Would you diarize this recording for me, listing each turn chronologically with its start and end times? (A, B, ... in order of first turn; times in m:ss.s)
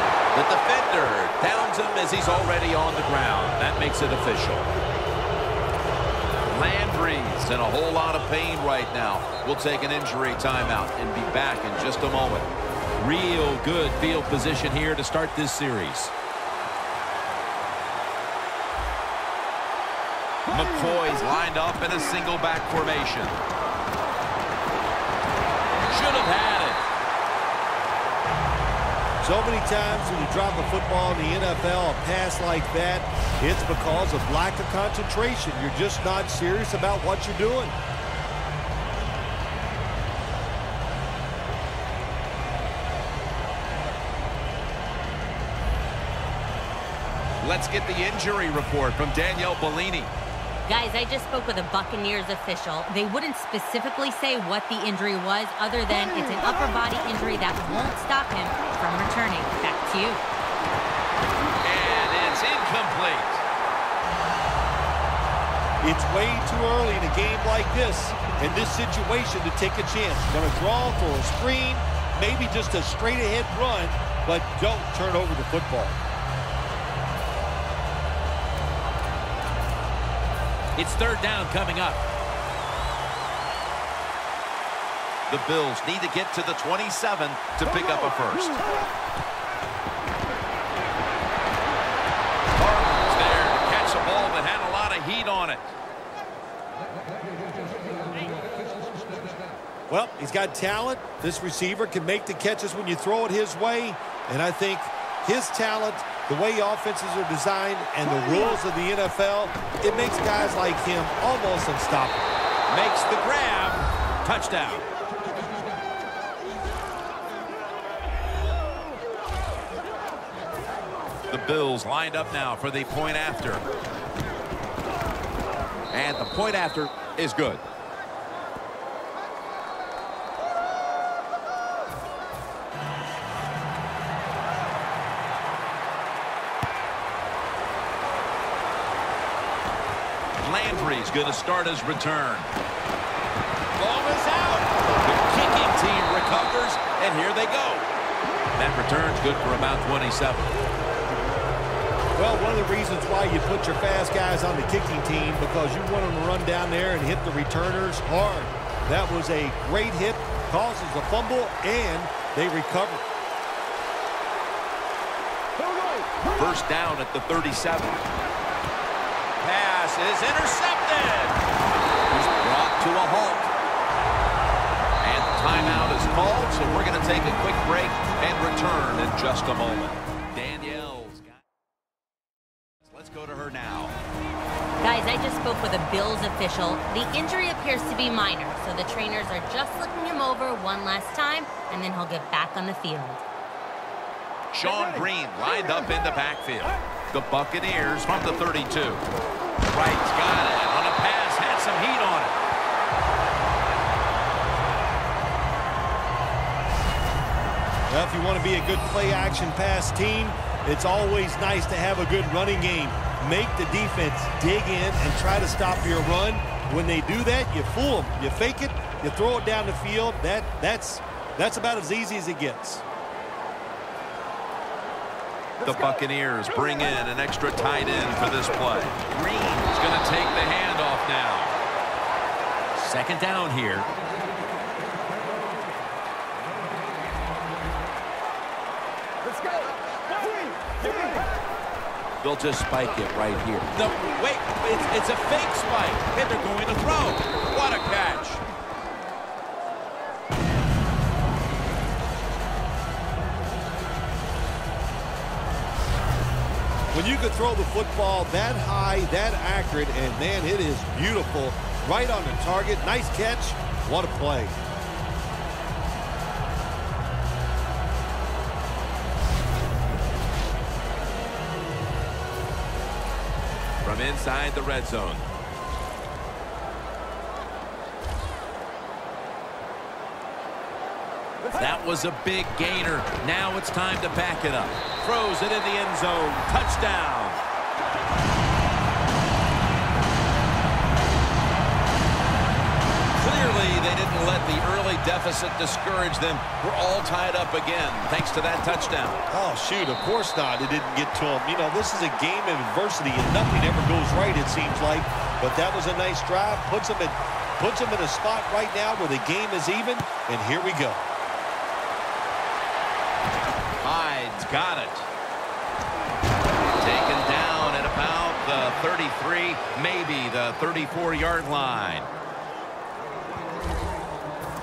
0:00.3-0:04.7 A
0:06.5-0:16.1 A
0:20.5-0:23.4 A
0:25.8-0:26.8 A
0:29.2-0:37.8 B
0:47.4-0:50.1 A
0:50.6-1:00.2 C
1:01.6-1:03.4 A
1:05.8-1:16.0 B
1:20.8-1:22.0 A
1:25.3-1:28.6 A
1:32.6-1:35.7 A
1:39.9-1:52.3 B
1:52.7-1:54.9 A
2:01.3-2:03.6 A
2:05.9-2:07.6 A
2:20.4-2:22.5 A
2:23.8-2:27.9 A
2:28.5-2:30.5 A
2:32.2-2:43.1 B
2:46.3-2:48.1 A
2:49.4-2:51.4 A
2:52.1-2:53.5 A
2:55.0-3:01.4 A
3:02.9-3:04.0 A
3:04.8-3:13.2 C
3:14.5-3:19.0 A
3:19.7-3:22.4 A
3:27.9-3:42.8 B
3:45.6-3:51.5 A
3:52.7-3:53.9 A
4:02.2-4:08.4 A
4:16.9-4:24.6 B
4:33.8-4:35.2 A
4:41.5-4:47.4 A
4:53.2-4:59.2 A
4:59.3-5:11.1 B
5:13.8-5:15.1 A
5:16.8-5:22.1 A